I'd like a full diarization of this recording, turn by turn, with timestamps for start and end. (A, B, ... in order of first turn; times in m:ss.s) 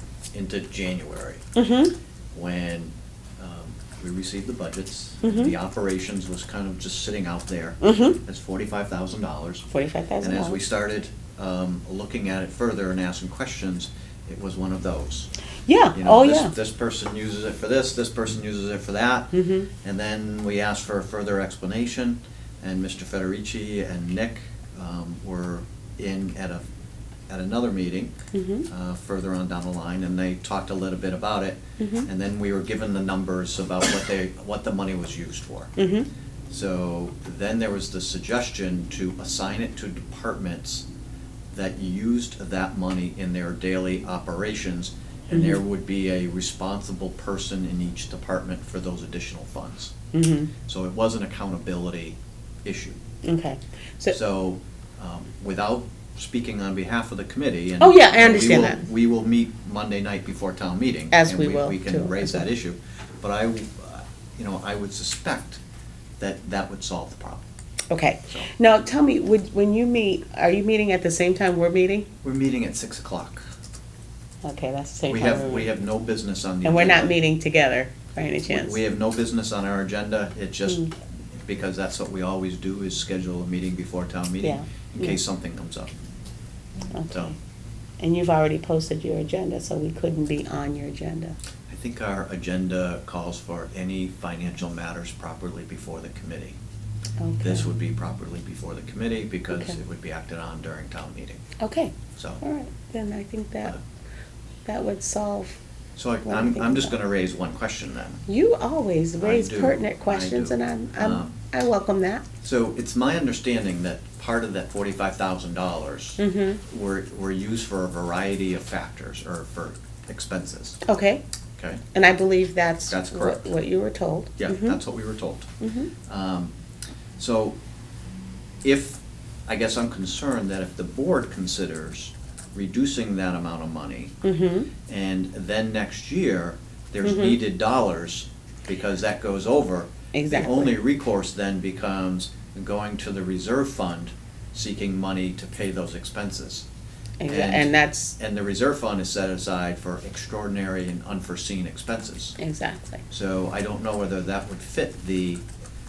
0:00.3-0:01.4 A
0:01.6-0:01.9 B
0:02.3-0:09.7 A
0:05.2-0:05.5 B
0:07.8-0:08.2 B
0:09.7-0:10.6 B
0:10.2-0:15.3 A
0:15.6-0:16.5 B
0:16.0-0:26.6 A
0:19.3-0:19.7 B
0:27.3-0:28.1 A
0:28.3-0:28.7 B
0:28.7-0:35.7 A
0:31.8-0:32.1 B
0:35.8-0:36.1 B
0:36.5-0:40.8 A
0:41.5-0:49.9 A
0:45.3-0:45.6 B
0:50.1-0:50.5 B
0:50.7-0:53.0 A
0:53.2-0:54.2 B
0:54.1-1:05.6 A
0:57.8-0:58.8 B
1:01.1-1:02.5 B
1:06.2-1:07.4 A
1:07.9-1:12.1 B
1:12.2-1:13.4 A
1:14.4-1:15.7 B
1:15.1-1:17.1 A
1:16.6-1:18.8 B
1:18.5-1:20.9 A
1:21.4-1:25.9 A
1:24.4-1:25.2 B
1:26.9-1:27.3 B
1:28.0-1:31.4 B
1:31.7-1:36.6 A
1:37.2-1:37.7 B
1:37.4-1:41.4 A
1:41.6-1:43.7 B
1:42.1-1:42.4 A
1:44.7-1:45.6 B
1:46.0-1:48.2 A
1:46.2-1:46.9 B
1:48.3-1:52.2 B
1:49.2-1:51.4 A
1:52.4-2:00.8 A
1:56.2-1:56.6 B
2:00.8-2:01.2 B
2:01.6-2:01.8 A
2:01.9-2:04.8 B
2:02.9-2:03.5 A
2:04.4-2:05.5 A
2:05.6-2:05.9 B
2:06.0-2:06.5 A
2:07.2-2:07.6 A
2:08.6-2:14.2 A
2:14.2-2:14.7 B
2:14.8-2:26.6 A
2:17.0-2:17.4 B
2:20.1-2:20.7 B
2:27.2-2:28.2 B
2:27.3-2:32.4 A
2:32.4-2:33.0 B
2:33.1-2:35.4 A